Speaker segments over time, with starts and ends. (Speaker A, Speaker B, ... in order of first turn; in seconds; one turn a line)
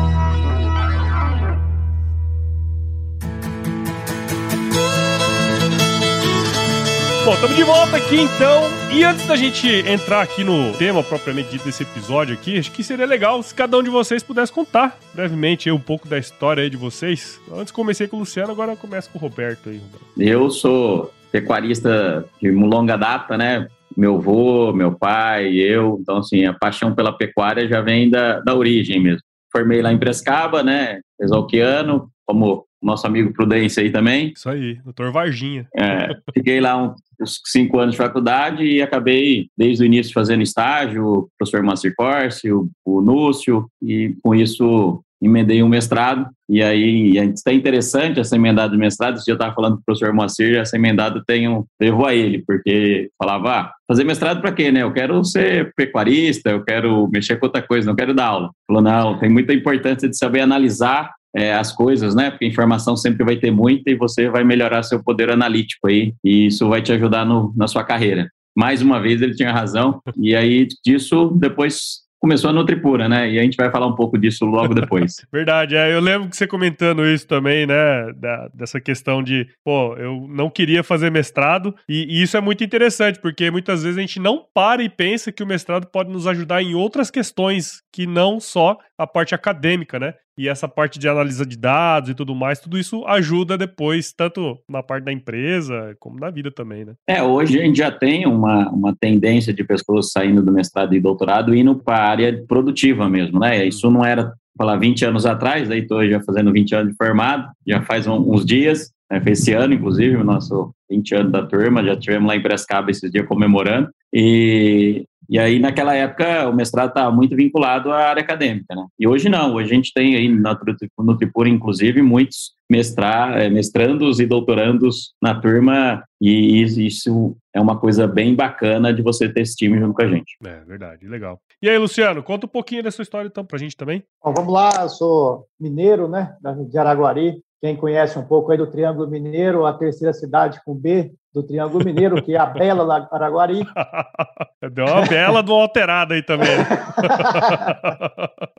Speaker A: 7.2-20.0
Speaker B: 20.1-34.3
Speaker A: 34.3-36.2
Speaker B: 35.7-75.2
Speaker A: 74.7-97.0
Speaker B: 97.1-130.3
Speaker A: 130.4-134.0
Speaker C: 134.2-143.7
Speaker A: 143.7-148.3
Speaker C: 146.5-147.8